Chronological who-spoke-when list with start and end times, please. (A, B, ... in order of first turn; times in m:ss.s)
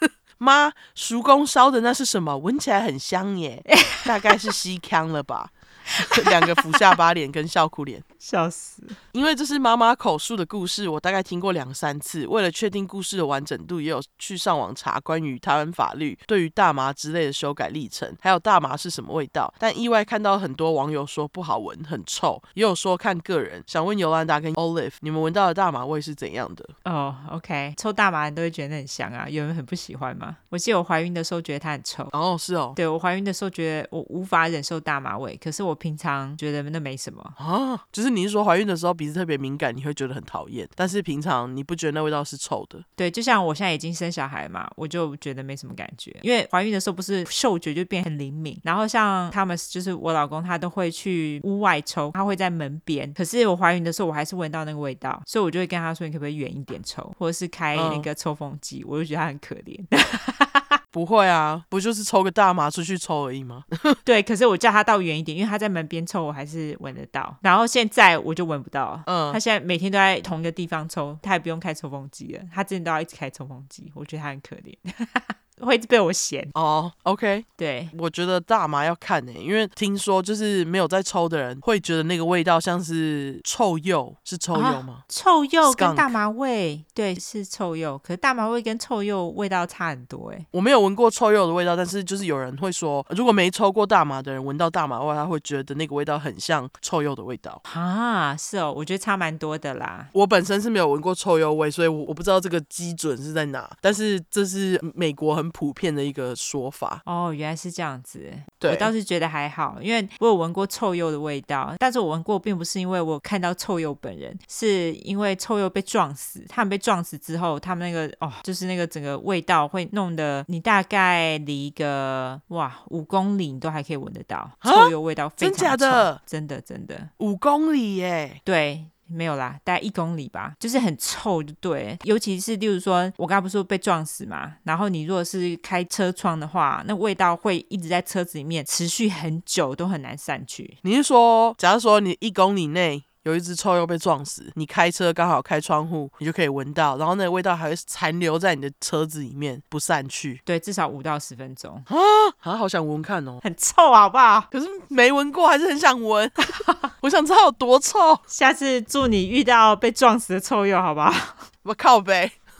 0:00.4-0:08.0 A
0:03.7-0:04.5 B
0:06.0-0:06.9 B
0:08.2-0:09.0 B
0:09.1-0:26.7 A
0:26.8-0:32.1 B
0:32.1-0:32.8 A
0:32.8-0:37.3 B
0:37.4-0:42.8 A
0:43.0-1:00.8 B
0:57.7-0:58.1 A
1:00.9-1:04.0 A
1:04.0-1:16.5 B
1:09.0-1:09.4 A
1:16.5-1:25.0 A
1:17.6-1:17.9 B
1:24.5-1:30.5 B
1:25.6-1:26.2 A
1:30.5-1:37.6 A
1:37.6-1:40.1 B
1:40.1-1:47.0 A
1:47.0-2:07.1 B
1:48.6-1:48.9 A
2:04.6-2:06.2 A
2:07.2-2:08.4 A
2:08.4-2:20.8 B
2:20.8-2:30.4 A
2:30.4-2:31.9 B
2:31.9-2:33.4 A
2:33.4-2:34.5 B
2:34.5-2:38.2 A
2:36.5-2:36.9 B
2:38.3-2:41.5 B
2:41.6-2:42.4 A